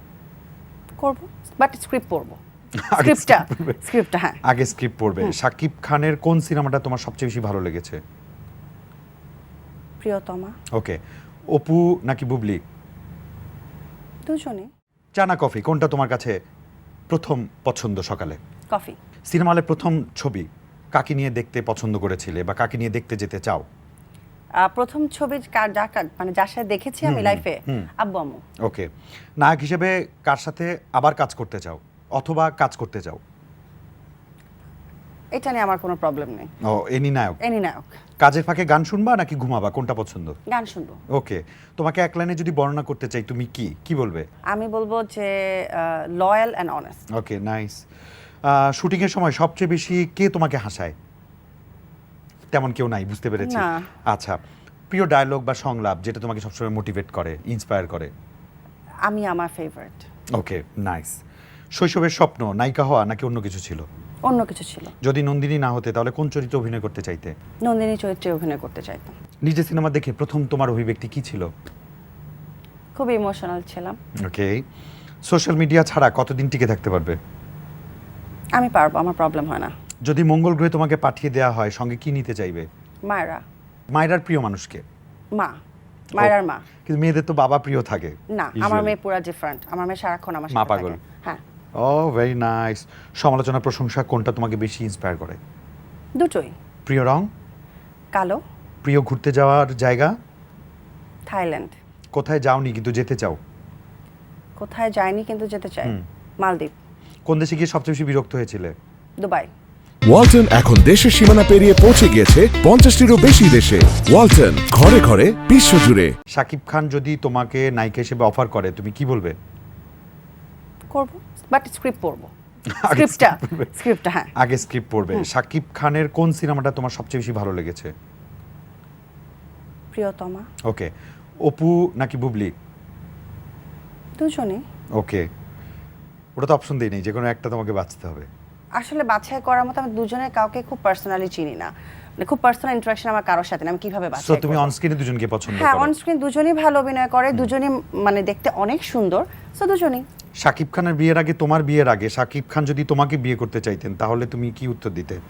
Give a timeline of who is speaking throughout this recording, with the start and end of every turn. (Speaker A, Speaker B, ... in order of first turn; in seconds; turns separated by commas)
Speaker A: 1.0-2.4, Speaker B: 2.8-3.8, Speaker A: 2.9-4.4, Speaker B: 4.4-8.0, Speaker A: 10.0-10.6, Speaker B: 10.7-11.0, Speaker B: 11.5-12.6, Speaker A: 14.2-14.7, Speaker B: 15.2-16.3, Speaker B: 17.1-18.4, Speaker A: 18.7-19.0, Speaker B: 19.3-23.6, Speaker A: 24.6-28.4, Speaker B: 27.0-27.9, Speaker B: 28.6-33.2, Speaker A: 35.3-36.5, Speaker B: 36.6-37.4, Speaker A: 37.4-38.0, Speaker B: 38.2-40.4, Speaker A: 40.5-41.0, Speaker B: 41.1-44.2, Speaker A: 44.5-47.0, Speaker B: 47.1-47.8, Speaker B: 48.5-50.9, Speaker B: 52.5-58.1, Speaker A: 53.4-53.9, Speaker A: 59.1-60.0, Speaker B: 60.3-61.2, Speaker B: 61.8-63.8, Speaker A: 64.2-64.9, Speaker B: 65.0-67.3, Speaker A: 67.6-69.1, Speaker B: 69.5-71.5, Speaker A: 73.0-74.0, Speaker B: 74.2-74.6, Speaker B: 75.3-77.2, Speaker A: 78.5-79.7, Speaker B: 80.0-82.7, Speaker A: 83.0-83.4, Speaker B: 83.9-84.8, Speaker A: 86.2-86.6, Speaker B: 86.8-88.9, Speaker A: 88.3-91.4, Speaker B: 90.5-91.0, Speaker B: 91.8-95.4, Speaker A: 96.2-96.5, Speaker B: 96.8-97.3, Speaker A: 98.1-98.4, Speaker B: 98.8-100.1, Speaker A: 101.3-101.8, Speaker B: 102.1-103.4, Speaker A: 104.6-106.7, Speaker B: 107.3-108.7, Speaker A: 109.2-109.5, Speaker C: 110.1-116.1, Speaker B: 116.3-119.3, Speaker A: 120.9-122.3, Speaker B: 122.7-123.7, Speaker A: 122.9-124.3, Speaker B: 124.4-127.9, Speaker A: 129.9-130.5, Speaker B: 131.4-132.5, Speaker A: 134.2-134.6, Speaker B: 135.0-135.2, Speaker B: 136.3-138.3, Speaker A: 138.8-144.7, Speaker B: 144.2-145.9, Speaker A: 145.5-150.1, Speaker B: 150.4-155.2